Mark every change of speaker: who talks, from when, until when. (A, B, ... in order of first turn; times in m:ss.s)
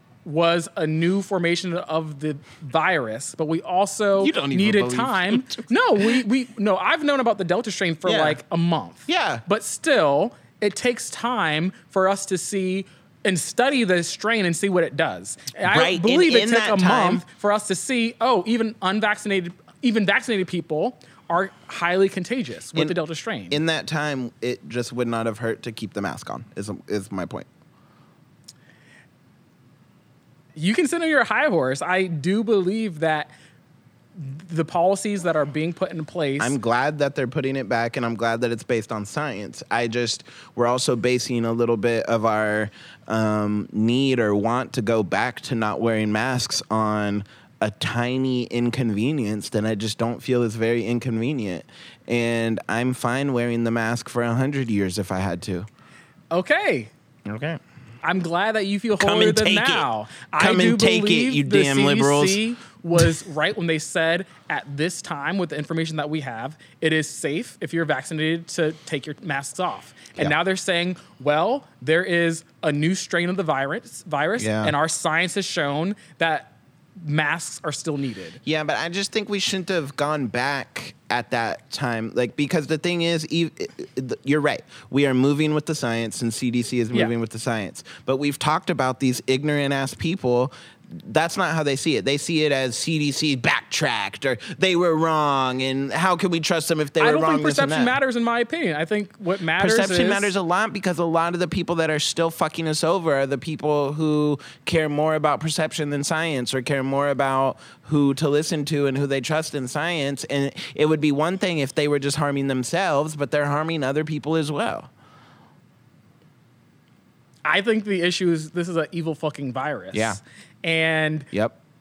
0:00.2-0:23.6 A
0:04.2-0:06.2 B
0:08.0-0:08.4 B
0:09.1-0:09.4 B
0:15.6-0:17.2 B
0:23.5-0:27.5 B
0:30.6-0:33.3 A
0:34.2-0:36.6 A
0:36.4-0:55.7 B
0:56.3-0:56.9 A
0:57.2-0:57.6 B
0:58.0-1:18.4 A
0:59.0-1:02.4 B
1:14.4-1:14.7 B
1:18.4-1:38.0 B
1:37.0-1:40.3 A
1:39.6-1:54.9 B
1:57.4-2:01.3 A
1:59.9-2:00.2 B